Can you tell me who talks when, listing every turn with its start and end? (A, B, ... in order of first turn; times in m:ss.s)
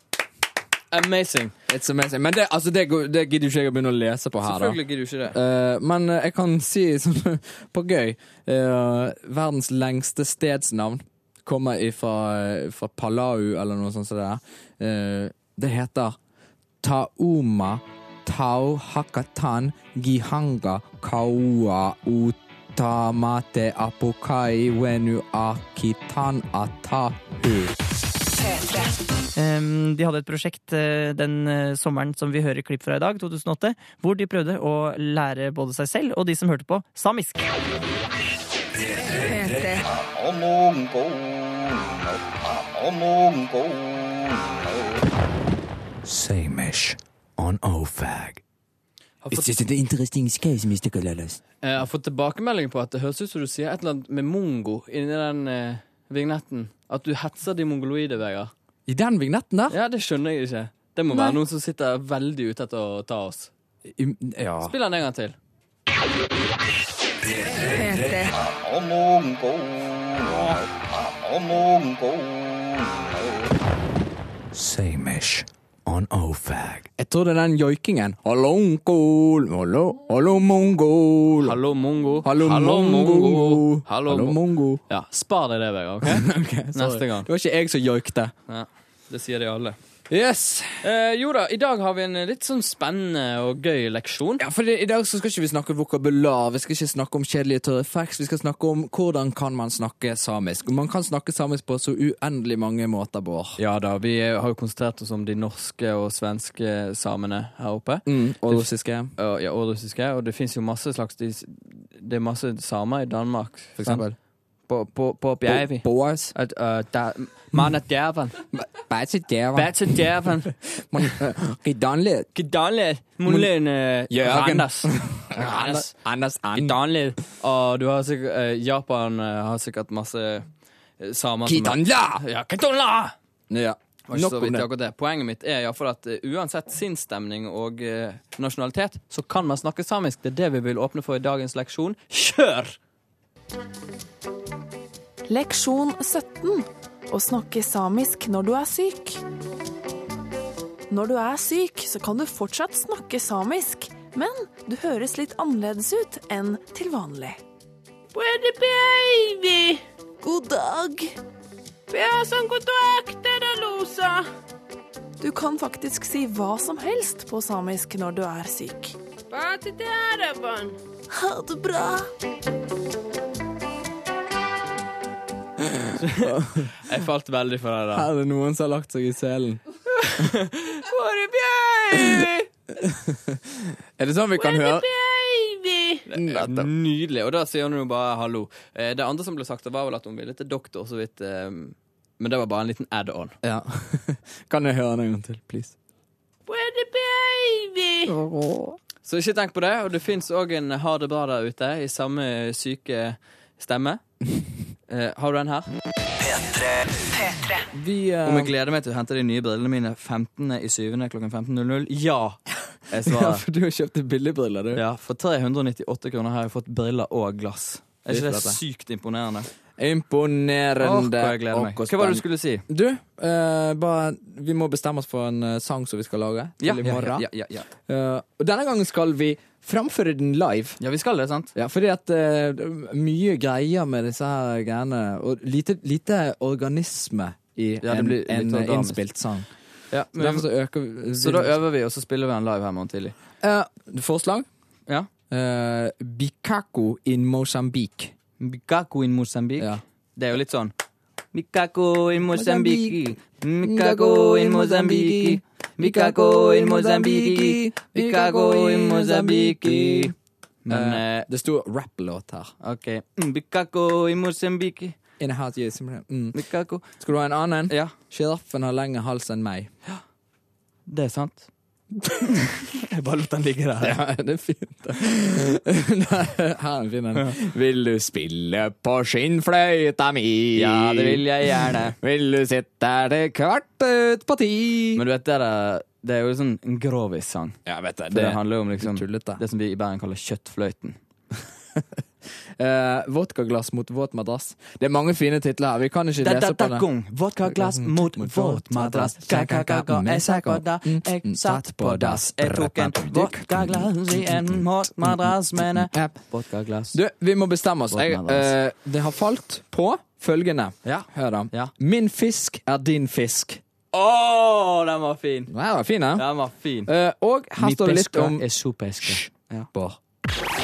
0:00.9-0:01.5 A
0:01.7-0:04.8 B
0:04.4-0:05.4 A
0:05.3-0:16.2 B
0:16.8-0:27.8 B
0:29.3-0:37.5 C
0:39.1-0:39.8 D
0:46.0-0:48.4 E
0:49.2-0:49.5 A
0:49.3-0:50.7 B
0:49.6-0:51.4 E
0:51.6-0:58.5 A
0:58.9-0:59.8 B
0:59.7-1:03.5 A
1:03.9-1:04.7 B
1:04.6-1:05.4 A
1:07.6-1:08.3 D
1:14.5-1:16.9 E
1:17.0-1:21.6 B
1:21.4-1:27.3 A
1:22.2-1:24.8 B
1:26.0-1:28.3 B
1:28.5-1:29.8 A
1:30.1-1:30.9 B
1:30.8-1:34.4 A
1:34.4-1:43.6 B
1:43.6-1:54.0 A
1:48.1-1:49.1 B
1:53.8-1:54.1 B
1:54.7-1:58.4 A
1:55.5-1:56.3 B
1:58.5-2:00.0 B
1:59.5-2:01.1 A
2:00.8-2:02.3 B
2:02.4-2:05.9 A
2:03.2-2:03.5 B
2:04.1-2:06.8 B
2:06.5-2:10.5 A
2:11.0-2:13.1 A
2:11.4-2:12.2 B
2:13.5-2:14.7 B
2:14.1-2:22.8 A
2:25.3-2:29.2 D
2:30.9-2:37.4 D
2:38.1-2:39.8 F
2:40.2-2:41.1 D
2:41.9-2:44.2 F
2:45.2-2:49.0 D
2:49.3-2:50.8 F
2:51.1-2:52.1 D
2:55.6-2:56.9 B
2:56.0-2:58.1 A
2:57.9-2:59.6 B
3:00.8-3:02.4 F
3:02.0-3:02.2 B
3:02.8-3:04.9 B
3:04.4-3:06.0 F
3:06.1-3:13.4 A
3:06.1-3:06.7 B
3:13.4-3:15.8 B
3:16.5-3:18.1 F
3:18.0-3:18.8 B
3:19.0-3:24.0 A
3:24.9-3:25.7 A
3:26.2-3:26.7 E
3:27.7-3:28.5 B
3:28.2-3:33.4 A
3:32.9-3:34.8 B
3:34.7-3:39.5 A
3:38.1-3:38.6 B
3:39.8-3:50.8 B
3:40.8-3:42.6 A
3:46.6-3:47.7 A
3:50.8-3:51.5 A
3:51.6-3:59.5 B
3:57.8-3:59.0 A
3:59.9-4:00.5 A
4:00.1-4:01.6 B
4:01.1-4:03.1 A
4:03.4-4:04.5 B
4:05.3-4:08.1 B
4:08.4-4:10.7 A
4:11.3-4:20.1 A
4:12.3-4:20.1 B
4:20.6-4:21.3 A
4:20.7-4:22.5 B
4:22.6-4:25.0 A
4:25.2-4:26.4 B
4:26.3-4:27.0 A
4:27.0-4:29.7 B
4:27.7-4:28.0 A
4:30.9-4:31.5 A
4:32.2-4:34.0 A
4:33.8-4:45.0 B
4:40.6-4:42.0 A
4:45.0-4:47.6 A
4:47.6-4:49.4 B
4:48.1-4:51.0 A
4:52.6-4:56.9 B
4:56.2-5:07.0 A
4:57.5-5:06.2 B
5:06.9-5:13.6 B
5:07.9-5:08.5 A
5:10.8-5:11.7 A
5:13.9-5:15.5 A
5:15.5-5:16.3 B
5:16.1-5:16.9 A
5:16.8-5:18.5 B
5:17.6-5:19.3 A
5:19.0-5:20.0 B